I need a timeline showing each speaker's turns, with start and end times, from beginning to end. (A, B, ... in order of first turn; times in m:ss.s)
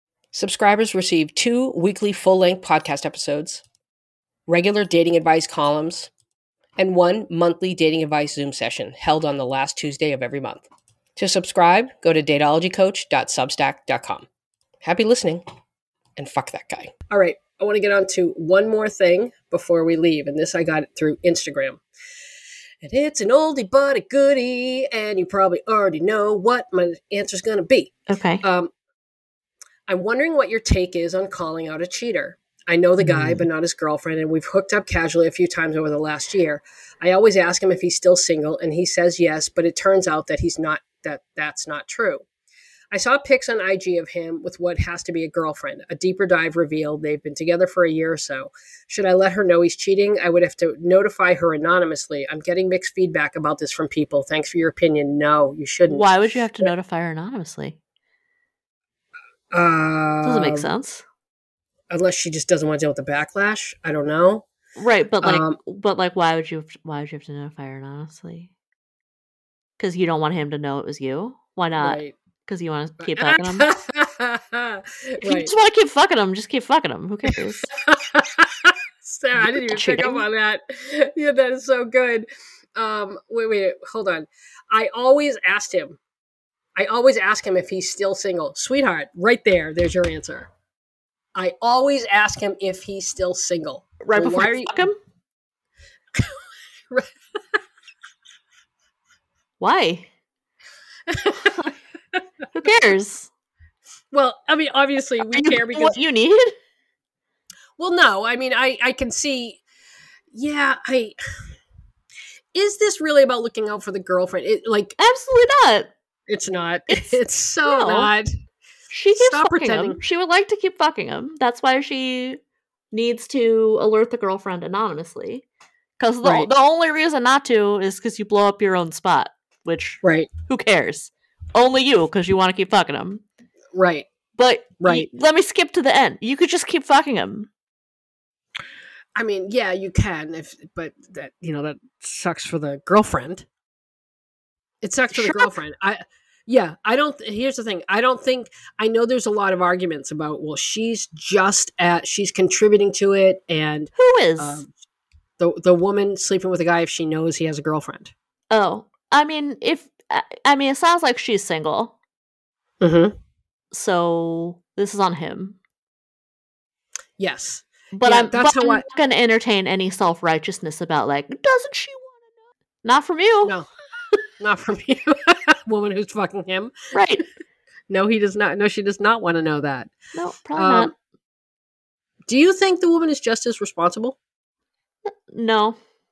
0:00.3-0:03.6 A
0:04.5-0:06.1 A
0:06.8-0:14.3 A
0:14.8-0:15.4 A
0:16.2-0:21.8 A
0:22.8-0:28.7 A
0:28.1-0:28.4 B
0:29.9-0:42.2 A
0:33.0-0:33.5 B
0:42.9-0:56.7 A
0:55.9-0:57.8 B
0:59.5-1:00.7 A
1:00.2-1:01.0 B
1:01.9-1:04.5 A
1:04.8-1:08.5 B
1:05.2-1:05.6 A
1:09.8-1:13.7 B
1:11.8-1:12.2 A
1:13.0-1:15.5 A
1:15.2-1:17.7 B
1:17.9-1:26.0 A
1:19.4-1:20.3 B
1:26.8-1:30.5 A
1:31.4-1:34.9 A
1:34.0-1:35.0 B
1:39.6-1:40.1 B
1:41.1-1:41.7 A
1:41.4-1:41.7 B
1:42.5-1:43.3 B
1:44.1-1:46.0 A
1:45.2-1:46.5 B
1:47.8-1:49.6 A
1:50.3-1:51.2 A
1:52.5-1:55.0 A
1:55.0-1:55.9 B
1:56.3-1:58.3 A
1:56.9-1:58.1 B
1:58.9-2:02.4 B
1:59.1-2:00.0 A
2:02.9-2:05.5 B
2:06.0-2:13.2 B
2:06.2-2:06.5 A
2:10.0-2:10.3 A
2:13.7-2:14.1 A
2:14.4-2:17.5 B
2:14.8-2:15.1 A
2:19.2-2:23.5 A
2:24.8-2:34.7 A
2:25.1-2:25.5 B
2:34.0-2:34.6 B
2:35.4-2:38.1 A
2:38.5-2:42.0 B
2:42.8-2:43.1 A
2:43.7-2:45.6 B
2:47.2-2:48.8 A
2:48.0-2:53.6 B
2:53.4-2:53.7 A
2:54.4-2:56.7 A
2:56.9-2:57.2 B
2:57.9-2:59.9 A
3:00.1-3:00.9 B
3:00.6-3:00.9 A
3:02.3-3:04.2 A
3:05.3-3:05.8 B